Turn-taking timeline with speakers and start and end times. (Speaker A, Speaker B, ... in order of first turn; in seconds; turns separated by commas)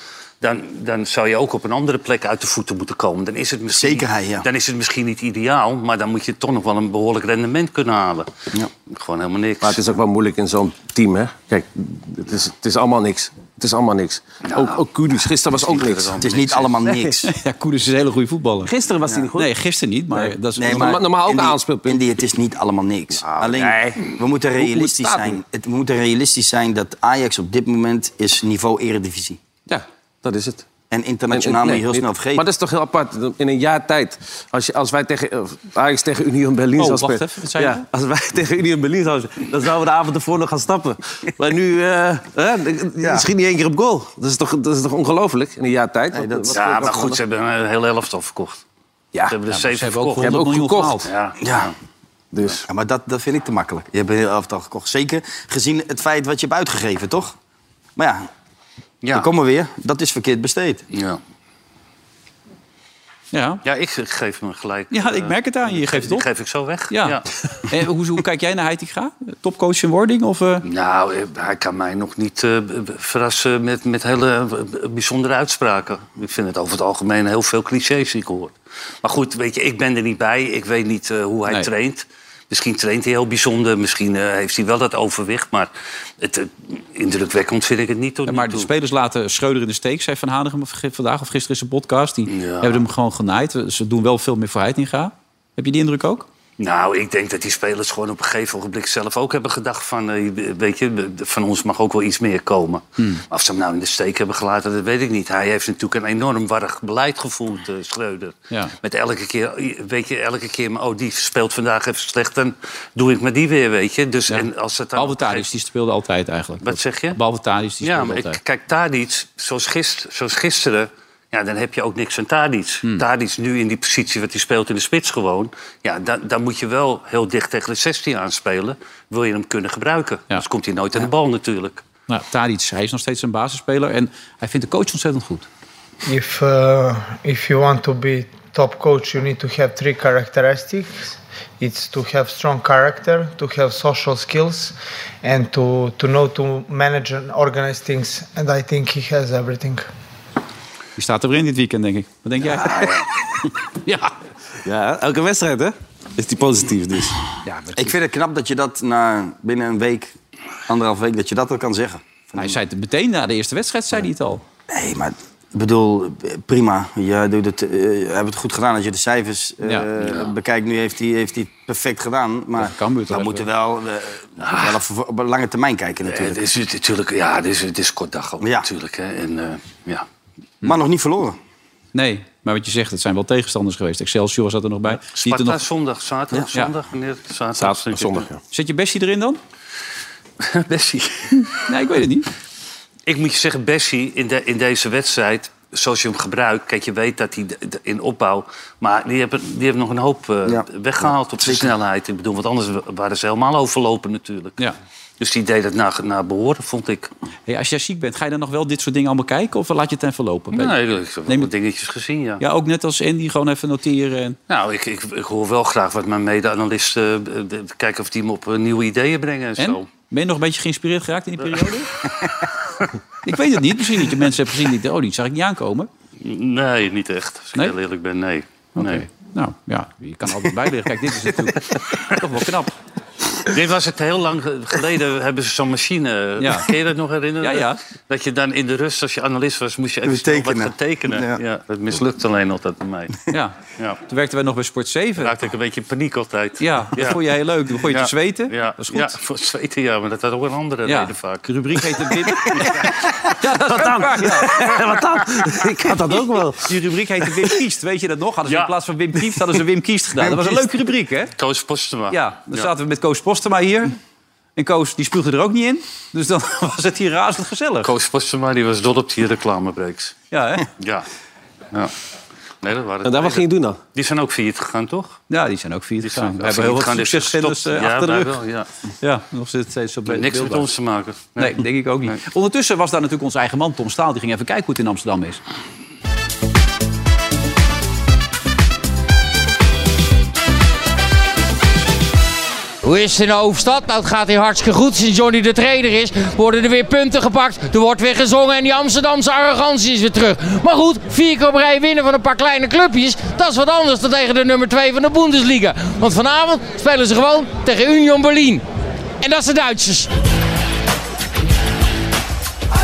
Speaker A: 0.4-8.3, Speaker B: 3.7-4.5, Speaker A: 8.9-9.8, Speaker C: 9.6-16.2, Speaker A: 14.5-16.8, Speaker B: 16.2-17.3, Speaker C: 16.9-17.2, Speaker D: 17.2-18.7, Speaker C: 18.7-19.5, Speaker D: 19.4-20.9, Speaker C: 20.1-22.0, Speaker B: 20.6-29.4, Speaker C: 23.2-25.4, Speaker C: 29.7-30.6, Speaker B: 30.9-32.5, Speaker C: 31.3-47.2, Speaker D: 36.8-37.8, Speaker B: 43.0-43.3, Speaker B: 46.1-46.9, Speaker A: 46.5-48.6, Speaker A: 49.3-50.4, Speaker D: 49.5-51.1, Speaker C: 50.2-51.1, Speaker A: 51.0-51.7, Speaker B: 51.4-51.7, Speaker C: 52.3-52.6, Speaker B: 52.7-57.4, Speaker B: 58.0-58.3, Speaker A: 59.0-59.3, Speaker B: 59.1-60.8, Speaker A: 60.9-61.2, Speaker D: 63.3-63.6, Speaker A: 63.6-67.2, Speaker D: 64.9-66.2, Speaker D: 66.9-70.7, Speaker A: 70.7-88.7, Speaker D: 88.3-96.3, Speaker A: 92.3-92.8, Speaker A: 96.6-115.5, Speaker D: 114.3-118.4, Speaker A: 116.6-117.2, Speaker A: 117.8-131.8, Speaker D: 132.1-135.5, Speaker E: 136.1-149.9, Speaker D: 151.0-153.0, Speaker C: 154.6-157.2, Speaker D: 157.4-158.0, Speaker B: 157.8-160.2, Speaker B: 160.7-162.6, Speaker D: 162.4-164.4, Speaker B: 164.7-176.4, Speaker A: 170.0-170.3, Speaker D: 172.6-173.5, Speaker A: 174.4-174.8, Speaker A: 176.1-180.1, Speaker B: 178.4-178.7, Speaker B: 180.6-181.4, Speaker D: 181.9-185.6, Speaker A: 184.9-188.3, Speaker C: 187.6-188.4, Speaker D: 188.5-189.4, Speaker A: 190.4-191.6, Speaker D: 191.7-192.3, Speaker A: 193.1-204.6, Speaker B: 200.5-201.7, Speaker A: 205.2-207.1, Speaker D: 207.5-210.8, Speaker A: 210.5-212.4, Speaker D: 212.4-214.4, Speaker A: 214.5-219.9, Speaker D: 219.6-221.9, Speaker D: 223.2-225.9, Speaker A: 226.2-229.0, Speaker D: 228.8-232.7, Speaker A: 233.4-243.2, Speaker D: 236.4-236.7, Speaker D: 237.4-237.8, Speaker B: 240.1-241.4, Speaker D: 243.3-243.6, Speaker D: 244.1-245.4, Speaker A: 245.2-247.2, Speaker D: 246.6-249.1, Speaker A: 247.9-251.5, Speaker D: 250.9-254.8, Speaker C: 253.4-256.7, Speaker D: 256.6-261.3, Speaker A: 258.5-258.7, Speaker A: 261.4-262.7, Speaker D: 262.1-264.0, Speaker D: 264.6-267.9, Speaker A: 267.8-270.2, Speaker D: 270.3-270.7, Speaker A: 270.8-271.1, Speaker A: 272.6-275.2, Speaker C: 273.0-273.8, Speaker D: 275.3-278.4, Speaker A: 276.0-278.7, Speaker D: 279.0-280.7, Speaker A: 280.1-282.2, Speaker D: 281.4-285.4, Speaker F: 292.8-308.6, Speaker F: 309.2-310.1